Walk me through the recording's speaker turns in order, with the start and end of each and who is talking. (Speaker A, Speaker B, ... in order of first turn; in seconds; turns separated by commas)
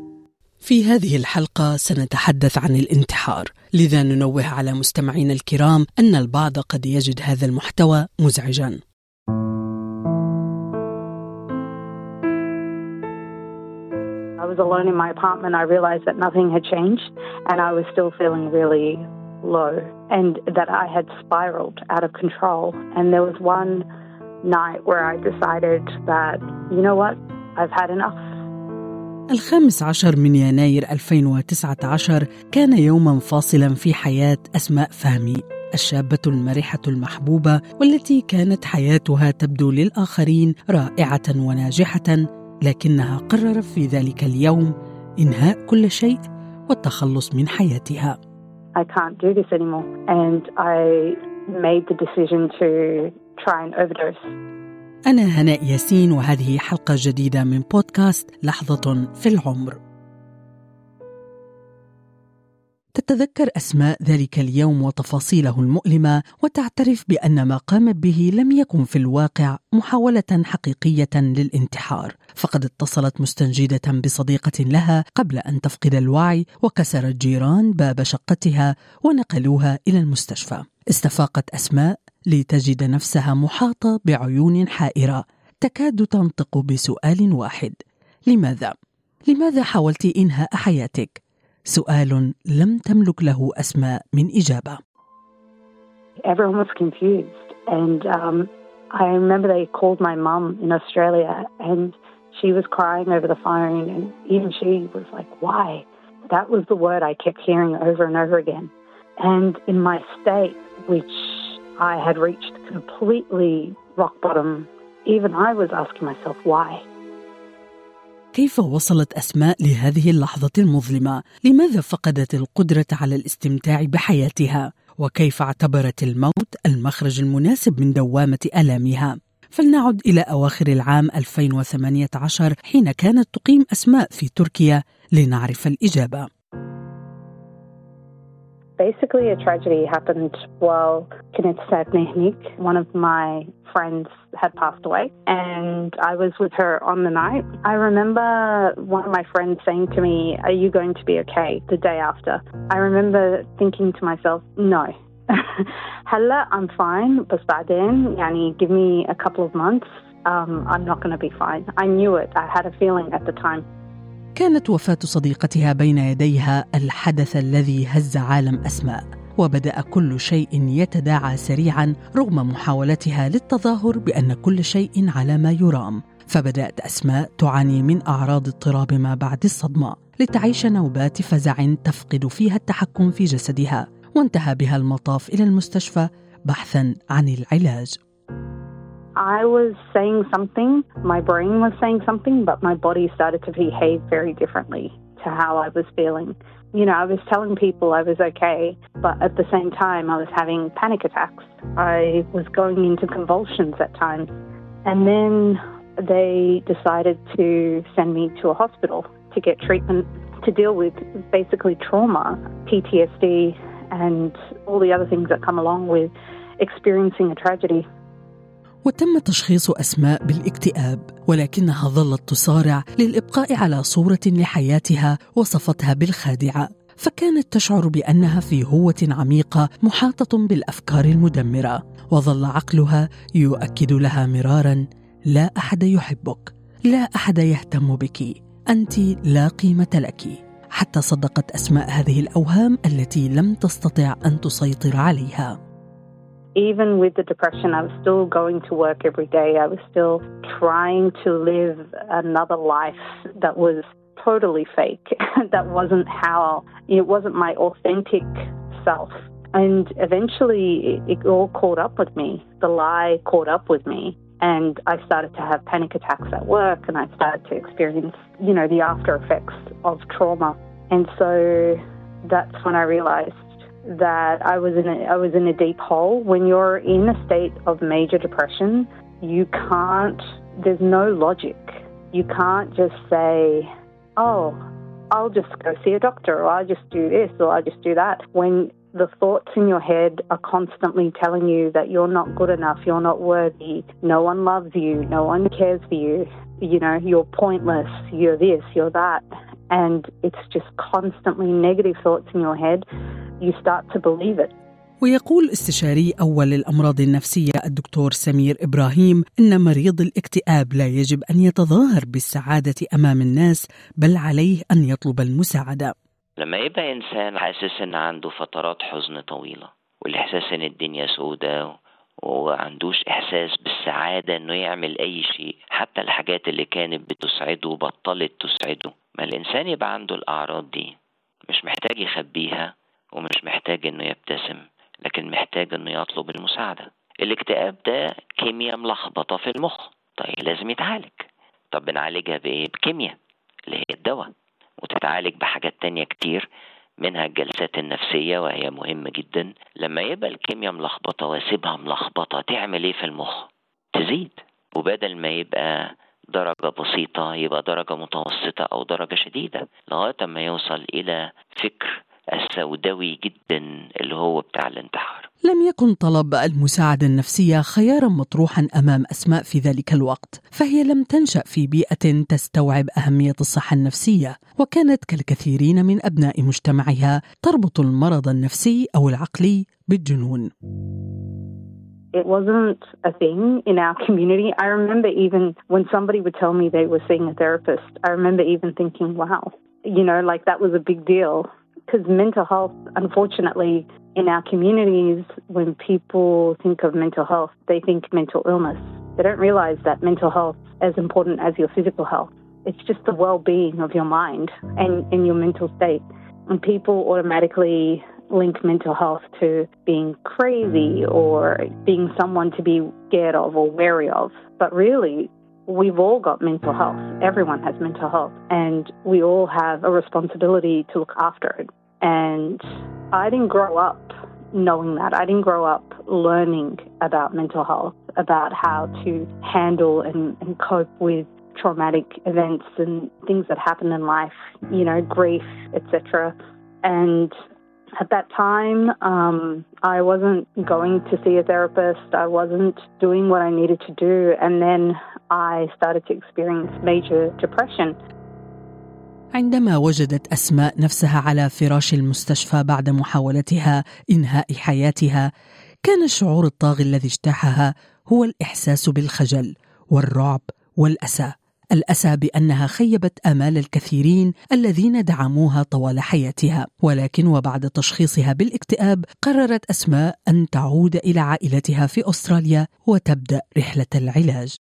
Speaker A: 0.6-8.8, Speaker B: 14.4-23.9, Speaker B: 24.4-28.2, Speaker A: 29.3-48.1, Speaker B: 48.7-54.3, Speaker A: 55.1-59.8, Speaker A: 63.0-87.8, Speaker A: 88.3-88.7, Speaker A: 89.3-91.2, Speaker A: 91.7-94.8, Speaker B: 96.2-116.8, Speaker A: 118.3-136.3, Speaker B: 138.8-163.7, Speaker A: 164.3-188.0, Speaker B: 189.2-204.3, Speaker B: 204.8-217.8, Speaker A: 218.8-245.5, Speaker B: 246.5-284.6, Speaker B: 285.1-302.9, Speaker B: 303.4-304.5, Speaker A: 305.0-315.9, Speaker C: 316.4-321.7, Speaker C: 322.2-330.9, Speaker C: 331.5-343.1, Speaker C: 343.7-344.3, Speaker C: 344.8-346.5, Speaker C: 347.0-365.3, Speaker A: 365.4-380.5, Speaker B: 382.1-437.3, Speaker B: 438.0-448.0, Speaker A: 449.3-455.3, Speaker A: 455.8-474.6